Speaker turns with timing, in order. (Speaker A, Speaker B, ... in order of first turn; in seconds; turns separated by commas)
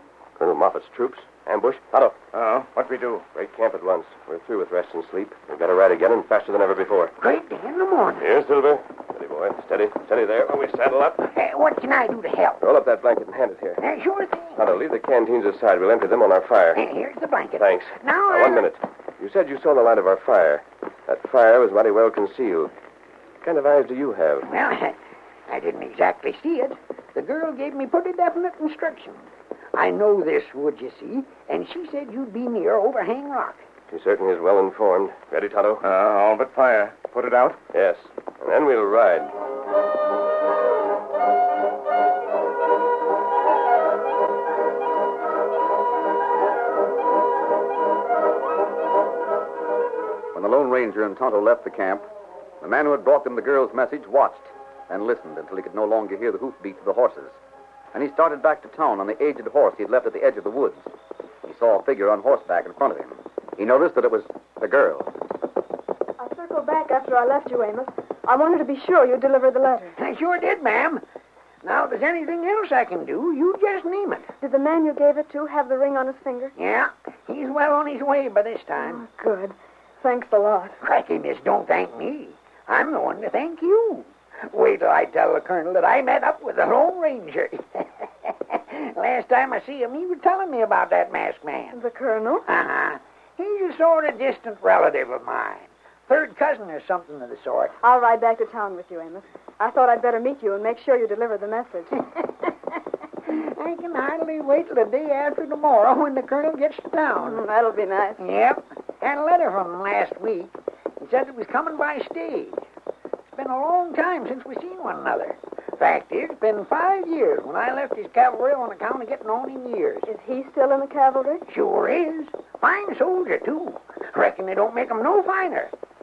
Speaker A: 0.4-2.2, Speaker B: 2.3-3.3, Speaker A: 3.3-7.1, Speaker C: 7.2-8.3, Speaker A: 8.2-11.3, Speaker C: 11.3-12.6, Speaker A: 12.6-13.8, Speaker C: 13.8-14.7, Speaker A: 14.6-16.8, Speaker C: 16.8-18.7, Speaker A: 17.6-22.7, Speaker A: 23.4-24.5, Speaker C: 24.4-33.6, Speaker A: 33.9-35.8, Speaker B: 35.8-37.6, Speaker A: 37.7-39.3, Speaker D: 50.3-52.1, Speaker D: 52.6-57.4, Speaker D: 57.9-60.9, Speaker D: 61.5-65.1, Speaker E: 66.2-70.0, Speaker C: 70.0-71.0, Speaker C: 71.6-74.3, Speaker E: 74.4-76.5, Speaker C: 76.6-79.0, Speaker E: 78.8-80.8, Speaker C: 80.8-91.8, Speaker E: 91.7-92.5, Speaker C: 92.5-97.8, Speaker E: 97.8-102.0, Speaker C: 103.2-107.4, Speaker E: 107.2-108.2, Speaker C: 108.2-112.6, Speaker C: 113.3-120.1, Speaker E: 120.1-121.4, Speaker C: 121.5-125.7